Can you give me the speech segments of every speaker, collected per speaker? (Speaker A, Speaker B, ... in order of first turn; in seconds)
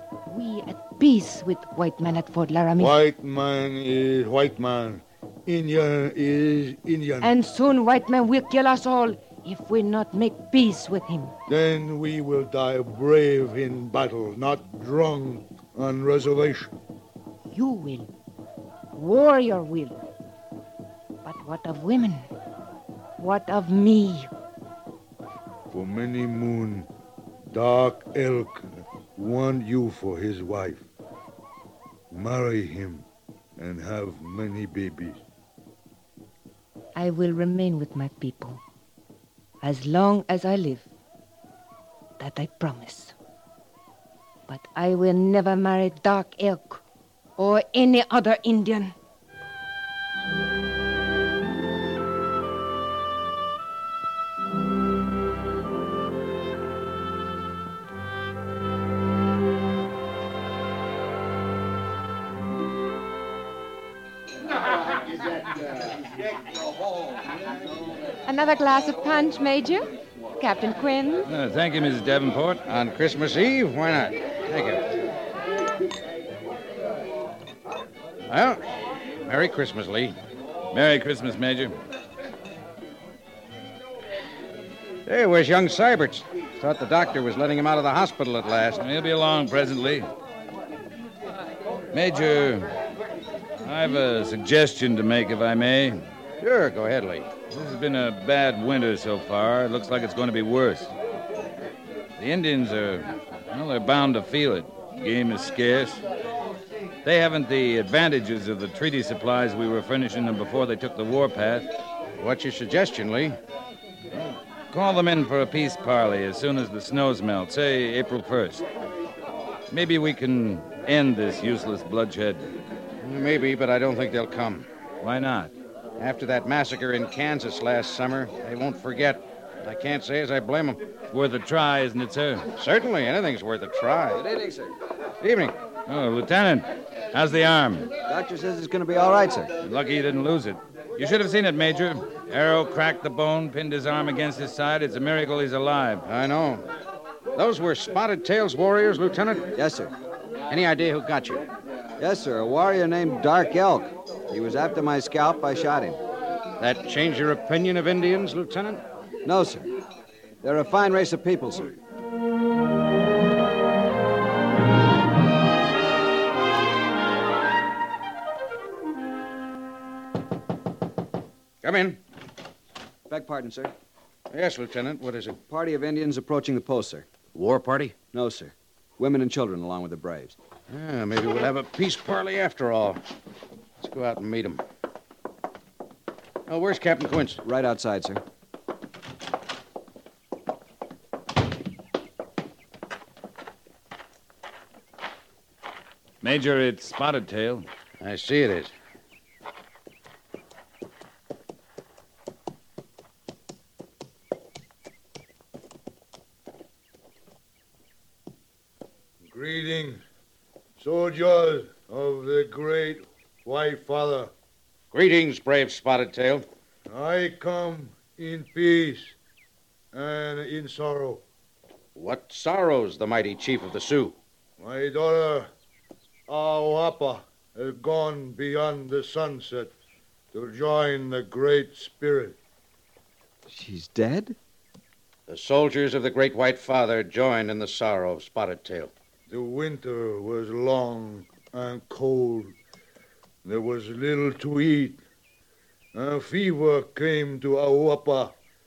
Speaker A: 0.3-2.9, 7.2-11.3, 17.5-18.1, 18.9-20.0, 21.2-22.3, 23.2-24.3, 36.9-38.6, 39.6-40.9, 42.2-43.1, 44.5-46.8, 47.4-48.9, 68.2-69.8, 70.4-71.2
Speaker B: 2.8-7.3, 11.5-16.7, 25.7-26.9, 27.5-30.9, 32.1-33.0, 33.6-35.2, 209.2-210.0, 210.8-214.3, 216.9-219.2, 219.9-221.2, 224.6-225.5, 226.3-229.7, 230.3-232.4, 239.3-242.5, 243.4-245.0, 245.9-248.3
Speaker C: 71.2-72.6, 80.7-81.8, 88.8-90.1, 91.9-92.7, 93.6-96.0, 97.5-100.9, 102.2-106.0, 107.0-111.7, 114.7-118.6, 119.7-122.5, 125.0-125.5, 131.1-132.5, 135.9-137.9, 139.6-146.0, 196.2-197.7
Speaker D: 72.7-74.8, 78.3-78.6, 79.2-80.2, 85.0-88.8, 96.4-97.3, 112.2-113.4, 123.0-124.7, 126.0-130.8, 132.6-134.2, 135.2-135.5, 146.0-146.6, 147.3-149.5, 150.5-151.4, 156.6-158.8, 171.6-172.0, 174.3-175.4, 177.3-177.9, 180.7-183.0, 183.8-184.6, 186.5-187.4, 198.0-198.7, 214.9-216.4, 221.9-224.2, 235.3-238.9
Speaker E: 134.1-134.8, 138.0-139.5, 149.5-149.9, 152.0-156.0, 159.2-159.7, 160.4-161.8, 173.1-173.7, 175.5-177.1, 178.1-180.4, 187.4-188.2, 233.5-234.4